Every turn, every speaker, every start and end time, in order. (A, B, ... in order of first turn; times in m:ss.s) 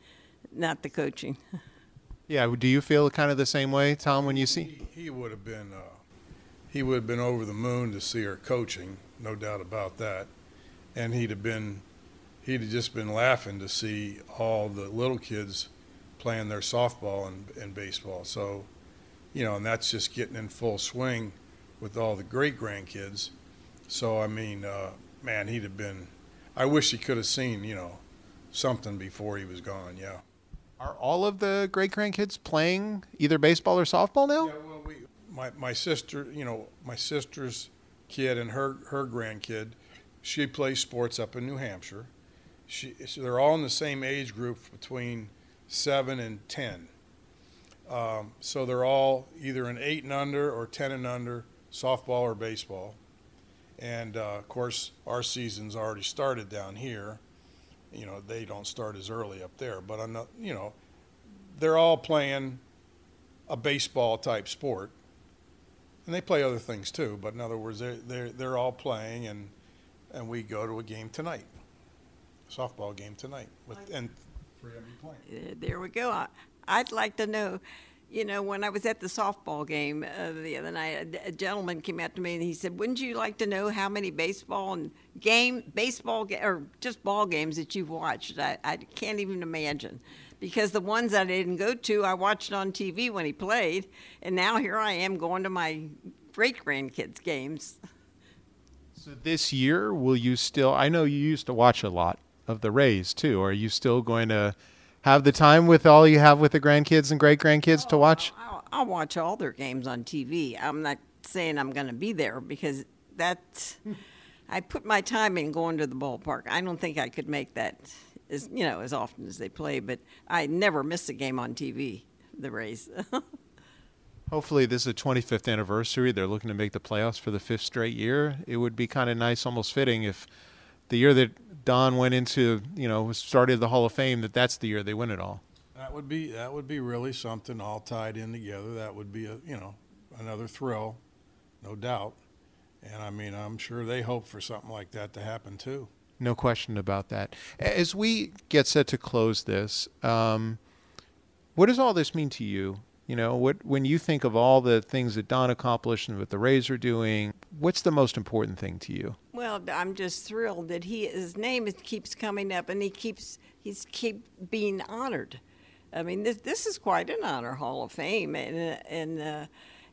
0:00.5-0:01.4 A
0:02.3-0:04.7 B
0:04.1-0:06.0 C
0:06.7-0:10.3 C
0:11.0-0:11.8 C
0:12.4-0:18.7 C
0:19.3-0:23.3 C
0:23.9-0:28.0 C
0:28.5-0:30.2 C
0:30.8-0:34.5 B
0:34.4-0:42.1 C
0:42.7-0:46.9 C
0:47.9-0:53.0 C
0:53.8-0:57.2 C
0:57.9-1:00.8 C
1:01.5-1:02.6 C
1:03.5-1:04.9 C
1:06.1-1:09.5 C
1:10.1-1:11.5 C
1:12.5-1:15.2 C
1:15.3-1:37.8 A
1:39.0-1:48.3 B
1:47.7-1:53.8 A
1:54.5-2:03.2 A
2:04.3-2:10.3 B
2:10.9-2:15.4 B
2:15.8-2:21.0 C
2:21.6-2:22.2 C
2:22.8-2:25.9 C
2:26.2-2:30.6 B
2:31.6-2:39.2 B
2:39.3-2:45.4 A
2:45.9-2:49.5 A